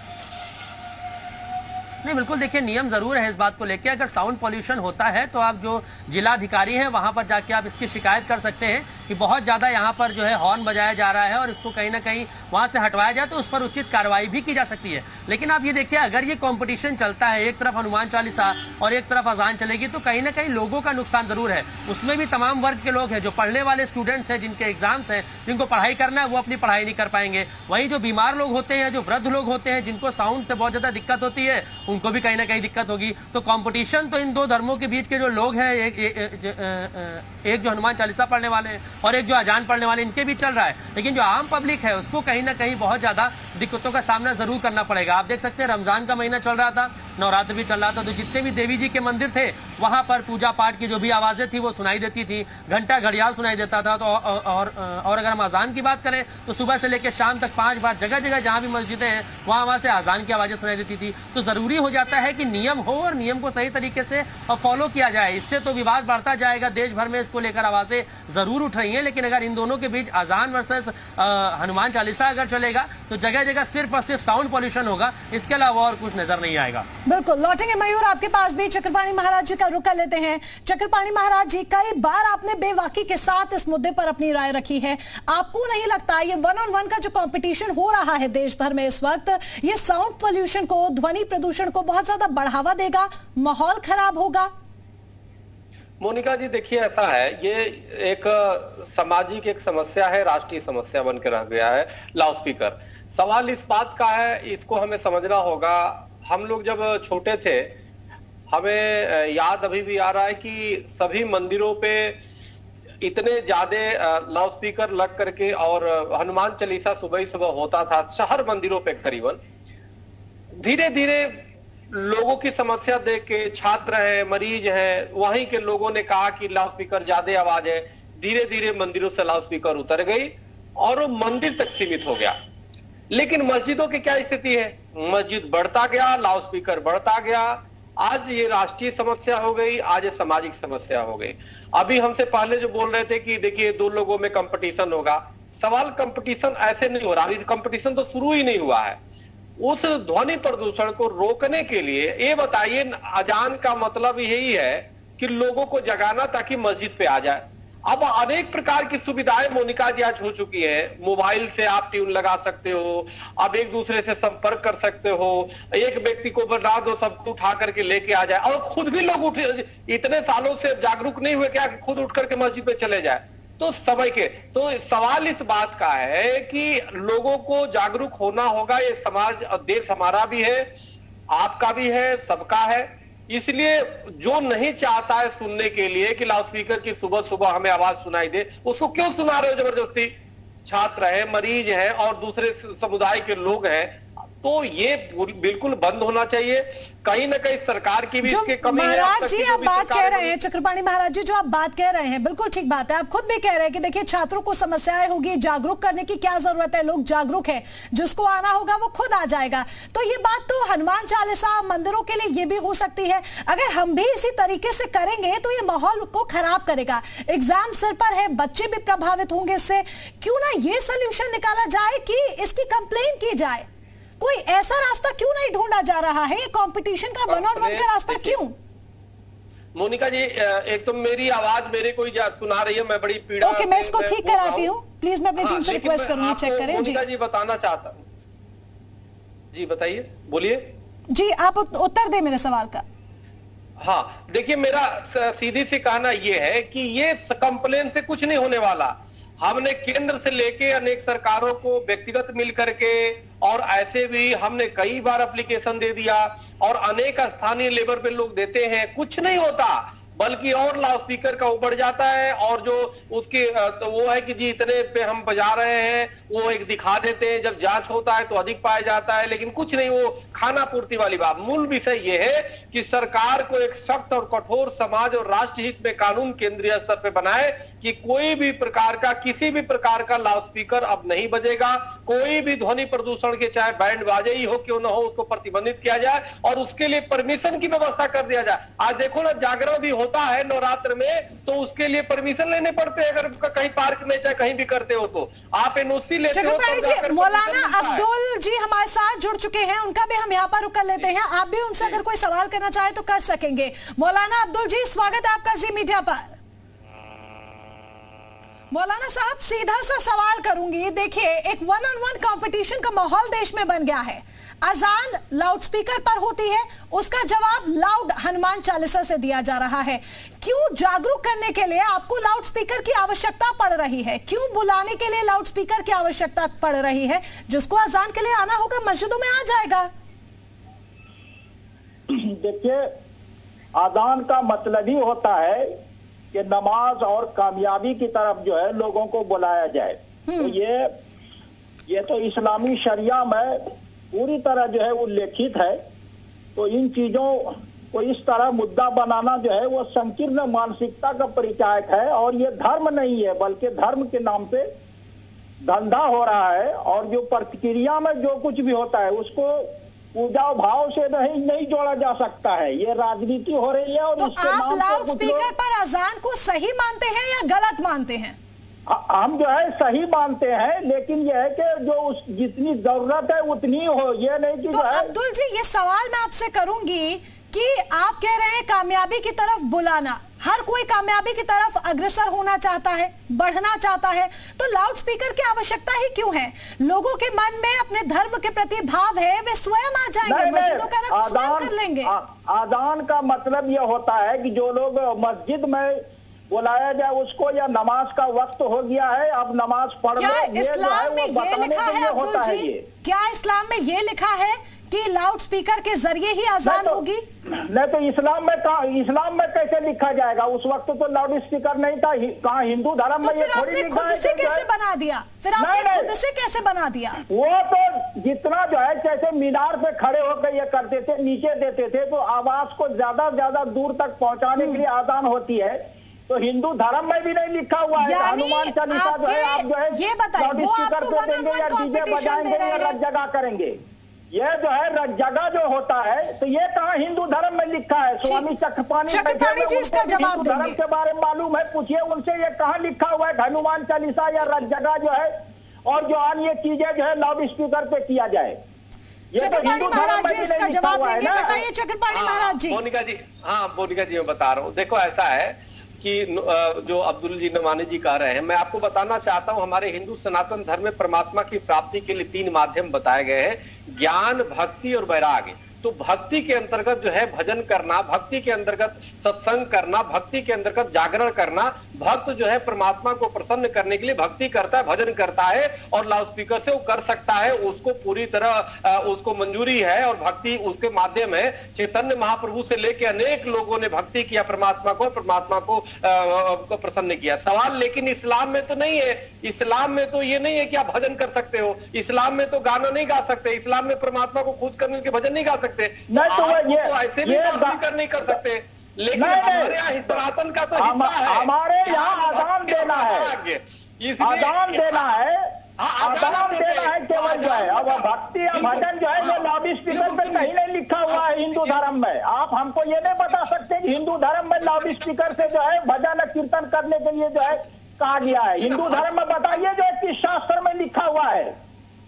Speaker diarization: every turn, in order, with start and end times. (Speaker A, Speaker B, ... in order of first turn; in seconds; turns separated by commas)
Speaker A: 2.0-76.8, Speaker B: 18.3-18.8, Speaker B: 21.6-21.9, Speaker B: 27.5-27.8, Speaker B: 38.9-39.1, Speaker B: 40.8-41.0, Speaker C: 77.1-94.5, Speaker B: 96.0-107.7, Speaker B: 108.5-112.2, Speaker B: 113.0-119.4, Speaker B: 120.6-132.3, Speaker B: 133.1-149.0, Speaker B: 149.6-180.7, Speaker B: 181.3-190.1, Speaker B: 190.7-200.4, Speaker C: 198.2-223.7, Speaker C: 224.2-228.5, Speaker B: 227.3-228.4, Speaker B: 229.7-234.7, Speaker C: 233.4-237.0, Speaker B: 235.4-238.0, Speaker B: 239.5-240.7, Speaker C: 241.1-242.8, Speaker B: 243.8-298.1, Speaker C: 296.3-306.4, Speaker C: 308.7-329.9, Speaker D: 332.1-332.8, Speaker D: 333.7-335.6, Speaker D: 336.3-340.9, Speaker C: 340.3-340.6, Speaker D: 341.9-343.6, Speaker D: 344.1-345.8, Speaker D: 346.5-354.6, Speaker D: 355.6-365.5, Speaker C: 364.2-368.4, Speaker D: 368.9-375.1, Speaker C: 374.7-392.1, Speaker D: 390.2-402.8, Speaker C: 400.2-407.2, Speaker D: 406.6-407.0, Speaker D: 407.5-414.6, Speaker C: 413.2-417.2, Speaker D: 415.6-416.1, Speaker D: 417.3-433.8, Speaker C: 424.6-424.8, Speaker C: 428.0-433.0, Speaker D: 434.3-445.3, Speaker C: 438.2-438.5, Speaker C: 439.1-440.8, Speaker D: 445.9-448.6, Speaker D: 449.3-451.6, Speaker C: 449.4-452.8, Speaker B: 451.3-505.2, Speaker D: 496.1-498.4, Speaker D: 499.1-500.2, Speaker D: 500.8-503.3, Speaker D: 504.2-505.4, Speaker B: 505.8-510.5, Speaker D: 506.0-521.5, Speaker B: 511.1-511.8, Speaker B: 513.1-513.6, Speaker B: 514.6-515.2, Speaker B: 518.2-519.6